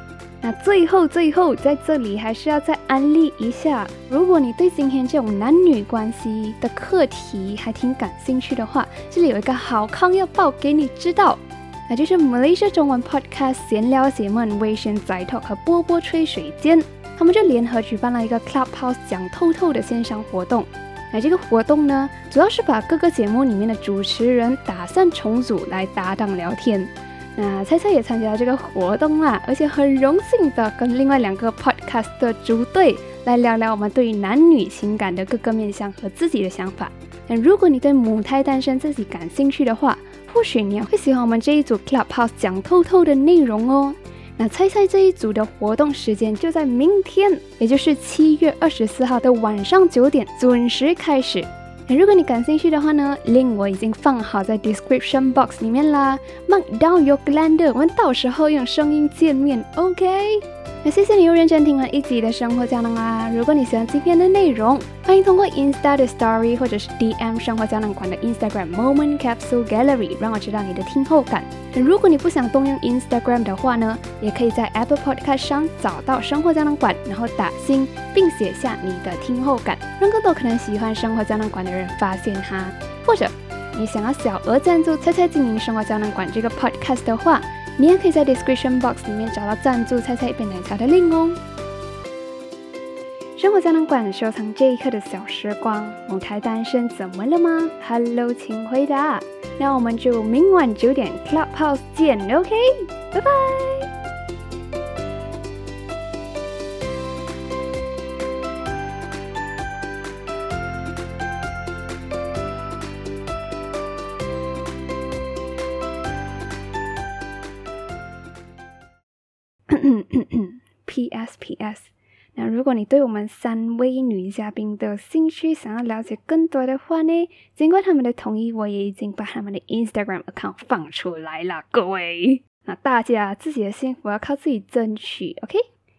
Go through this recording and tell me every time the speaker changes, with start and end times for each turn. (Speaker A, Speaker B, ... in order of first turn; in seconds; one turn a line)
Speaker A: 0.4-91.4
Speaker A: 93.4-103.9
Speaker A: 119.7-135.6